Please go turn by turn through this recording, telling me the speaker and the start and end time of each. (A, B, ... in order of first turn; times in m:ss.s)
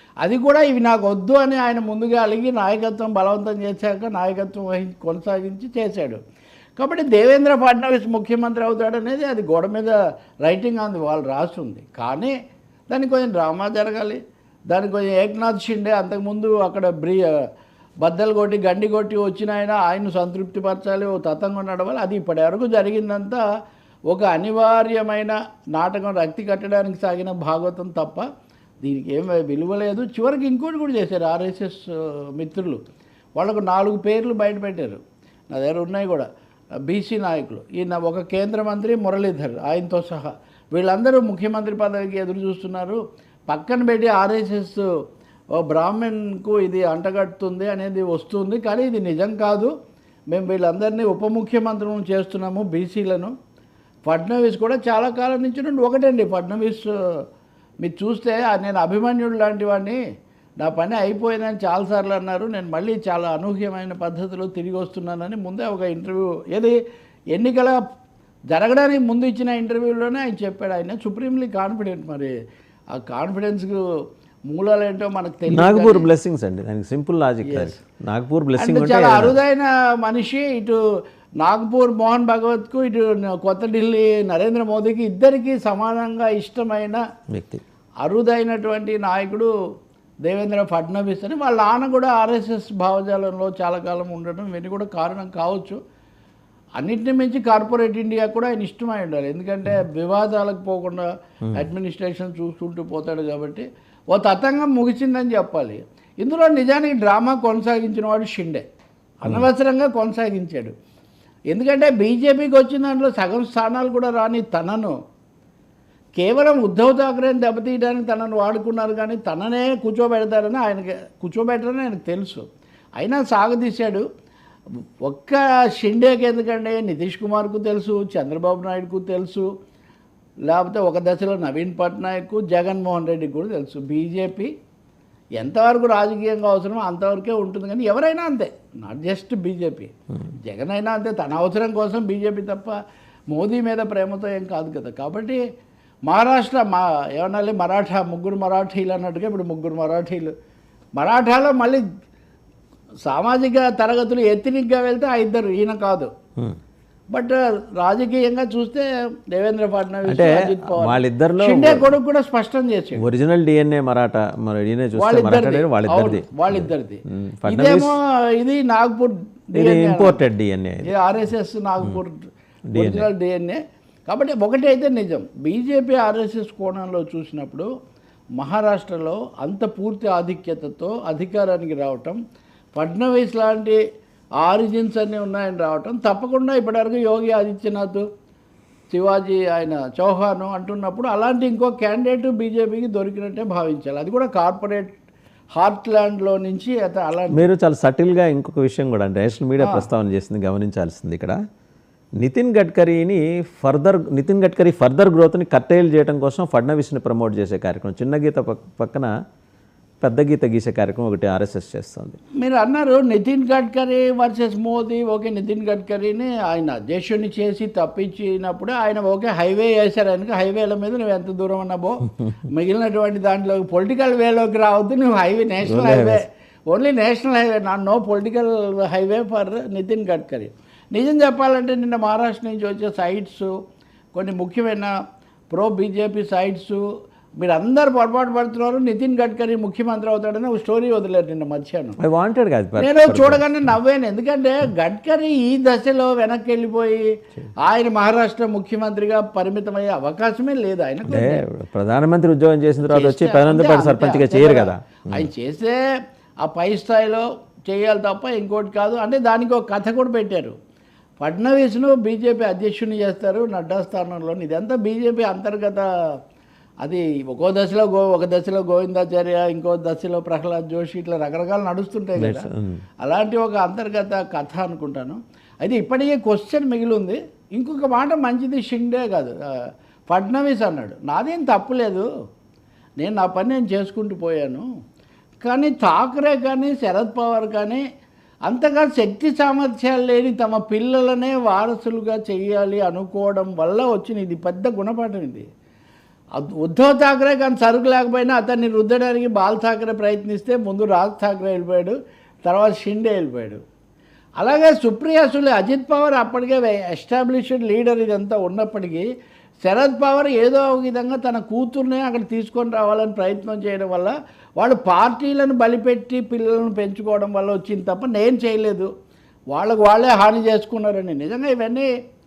0:00.2-0:06.2 A
0:06.8-0:12.3 A
0:12.9-0:17.3 A
0:18.0-0:23.4 A
0:24.1-0:28.3 A
0:28.8-0:32.8 A
0:33.4-0:36.3 A
0:36.8-0:44.8 A
0:45.6-0:49.7 A
0:50.3-0:53.3 A
0:54.1-0:56.9 A
0:57.8-1:00.0 A
1:00.6-1:06.8 A
1:07.3-1:07.8 A
1:08.5-1:12.3 A
1:13.0-1:13.8 A
1:14.5-1:16.0 A
1:15.5-1:19.4 B
1:17.4-1:17.7 A
1:18.6-1:20.8 A
1:21.4-1:27.0 A
1:27.3-1:27.6 B
1:28.0-1:29.5 A
1:30.3-1:35.8 A
1:36.8-1:48.6 A
1:49.2-1:50.7 A
1:51.5-1:54.9 A
1:56.2-2:02.4 A
2:03.0-2:04.0 A
2:05.0-2:09.5 A
2:10.5-2:14.5 A
2:15.4-2:22.8 A
2:23.3-2:25.4 A
2:26.1-2:30.3 A
2:31.0-2:31.8 A
2:33.0-2:36.1 A
2:37.1-2:43.0 A
2:40.1-2:41.9 B
2:43.0-2:47.9 B
2:45.0-2:50.2 A
2:49.5-2:50.9 B
2:50.8-2:57.7 A
2:52.7-2:53.1 B
2:58.4-3:02.2 A
3:02.8-3:03.8 A
3:04.4-3:08.0 A
3:08.9-3:14.9 A
3:15.6-3:17.5 A
3:17.3-3:21.4 B
3:19.6-3:19.8 A
3:22.2-3:29.1 B
3:30.0-3:32.2 B
3:32.4-3:53.5 A
3:45.6-3:46.2 B
3:54.1-3:54.9 A
3:55.5-3:56.9 A
3:57.4-4:02.0 A
4:02.0-4:03.4 B
4:02.8-4:07.1 A
4:07.6-4:11.4 A
4:11.0-4:15.3 B
4:12.8-4:15.8 A
4:16.4-4:20.5 A
4:21.2-4:25.8 A
4:26.8-4:32.5 A
4:32.2-4:32.8 B
4:33.0-4:39.4 A
4:40.1-4:42.1 A
4:43.0-4:44.6 A
4:45.4-4:47.8 A
4:48.5-4:55.4 A
4:56.4-5:03.6 A
5:04.4-5:09.1 A
5:09.6-5:18.9 A
5:19.5-5:21.9 A